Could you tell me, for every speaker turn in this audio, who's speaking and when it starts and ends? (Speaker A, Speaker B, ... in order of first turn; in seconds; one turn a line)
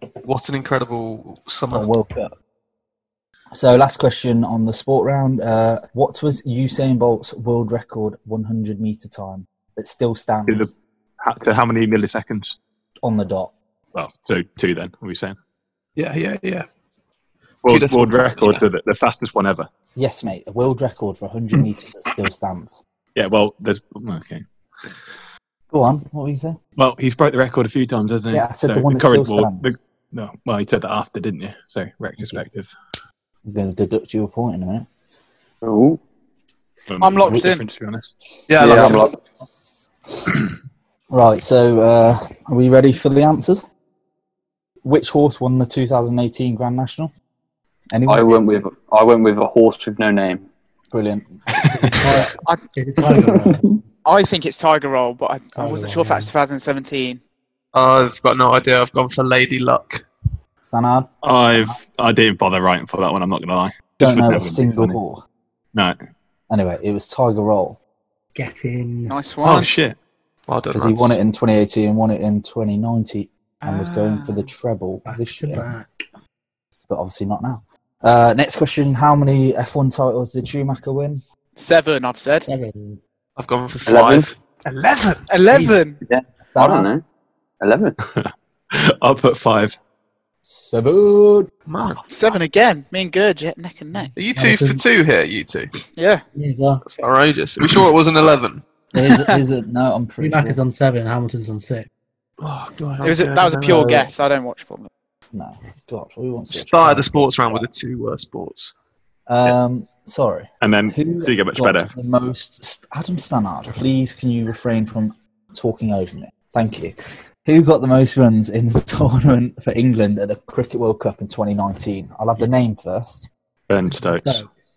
Speaker A: 0.2-1.9
Speaker B: 1.7-2.3
Speaker B: 3.5-10.8
Speaker C: 10.5-12.6
Speaker B: 13.0-13.5
Speaker C: 13.9-15.4
Speaker A: 15.9-16.6
Speaker C: 17.6-19.7
Speaker A: 17.6-18.7
Speaker B: 19.9-22.8
Speaker C: 23.1-24.9
Speaker B: 25.7-26.6
Speaker C: 26.8-32.8
Speaker B: 28.3-29.8
Speaker B: 33.4-34.9
Speaker D: 35.6-36.0
Speaker C: 36.9-38.1
Speaker E: 37.0-37.6
Speaker A: 38.5-39.1
Speaker D: 38.6-39.2
Speaker B: 38.6-39.1
Speaker B: 41.1-43.6
Speaker B: 44.8-47.1
Speaker B: 47.9-48.4
Speaker D: 48.1-50.5
Speaker B: 50.9-51.4
Speaker C: 51.6-52.0
Speaker F: 51.9-53.7
Speaker D: 53.1-53.8
Speaker E: 54.0-57.2
Speaker F: 55.5-56.3
Speaker A: 57.7-60.0
Speaker B: 60.6-61.8
Speaker C: 61.2-65.0
Speaker B: 64.0-65.2
Speaker B: 66.5-67.8
Speaker F: 68.3-69.2
Speaker E: 69.1-69.7
Speaker C: 69.4-70.0
Speaker A: 70.5-71.2
Speaker B: 70.7-75.7
Speaker E: 73.6-74.5
Speaker F: 75.0-75.9
Speaker B: 76.9-81.2
Speaker E: 81.5-82.5
Speaker F: 82.5-83.0
Speaker A: 83.4-85.2
Speaker D: 83.9-84.3
Speaker E: 85.3-86.0
Speaker D: 86.0-87.0
Speaker B: 86.5-86.9
Speaker D: 87.6-88.0
Speaker C: 88.0-89.8
Speaker B: 90.4-91.5
Speaker A: 91.7-92.0
Speaker E: 92.1-94.1
Speaker F: 93.9-94.8
Speaker A: 94.1-95.7
Speaker E: 96.0-96.2
Speaker F: 96.3-96.8
Speaker A: 96.8-98.6
Speaker B: 98.9-100.6
Speaker E: 99.0-99.3
Speaker F: 100.2-101.9
Speaker A: 102.4-104.1
Speaker E: 103.0-104.9
Speaker B: 105.3-107.6
Speaker A: 106.5-108.7
Speaker B: 109.3-123.3
Speaker C: 110.6-111.9
Speaker C: 123.7-124.4
Speaker F: 123.9-124.5